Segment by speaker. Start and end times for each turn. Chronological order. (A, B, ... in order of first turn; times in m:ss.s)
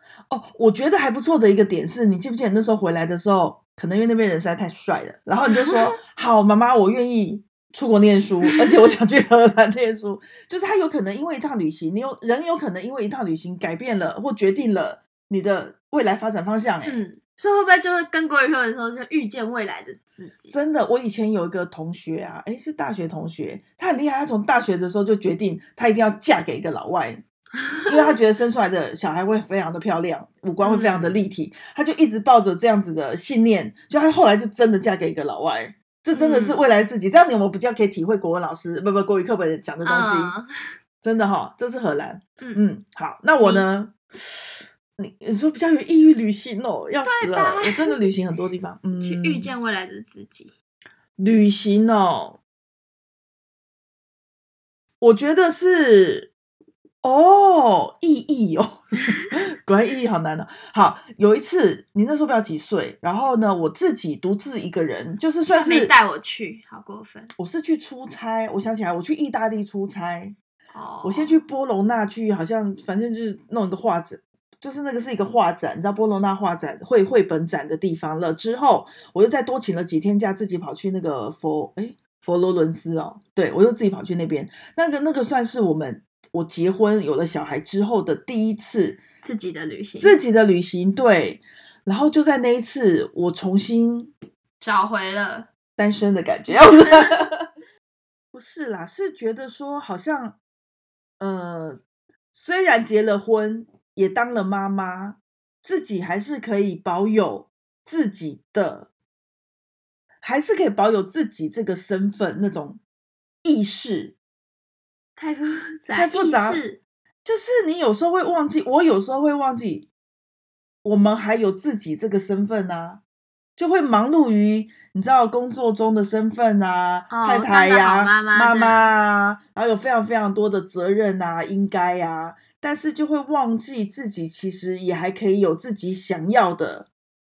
0:00.3-0:17.0 A
0:16.8-0:20.6 B
0:20.5-0:27.2 A
0:27.9-0:40.3 A
0:30.6-0:31.2 B
0:36.1-0:36.6 B
0:39.8-0:40.4 B
0:41.0-0:49.5 A
0:43.4-0:43.7 B
0:47.0-0:48.0 B
0:49.0-0:50.5 B
0:51.2-0:52.4 A
0:55.0-0:56.3 A
0:57.0-1:05.9 A
1:05.5-1:07.3 B
1:07.4-1:10.4 A
1:10.7-1:11.4 B
1:11.0-1:29.0 A
1:29.2-1:30.2 B
1:30.0-1:34.1 A
1:34.6-1:35.5 B
1:35.8-1:37.5 A
1:36.5-1:37.2 B
1:38.3-1:40.4 A
1:41.2-1:41.8 A
1:42.3-1:48.9 A
1:50.2-1:52.8 A
1:53.4-1:54.2 A
1:55.2-1:56.8 B
1:55.9-1:56.6 A
1:57.2-1:59.9 A
2:00.8-2:03.0 A
2:03.6-2:16.9 A
2:07.1-2:08.9 B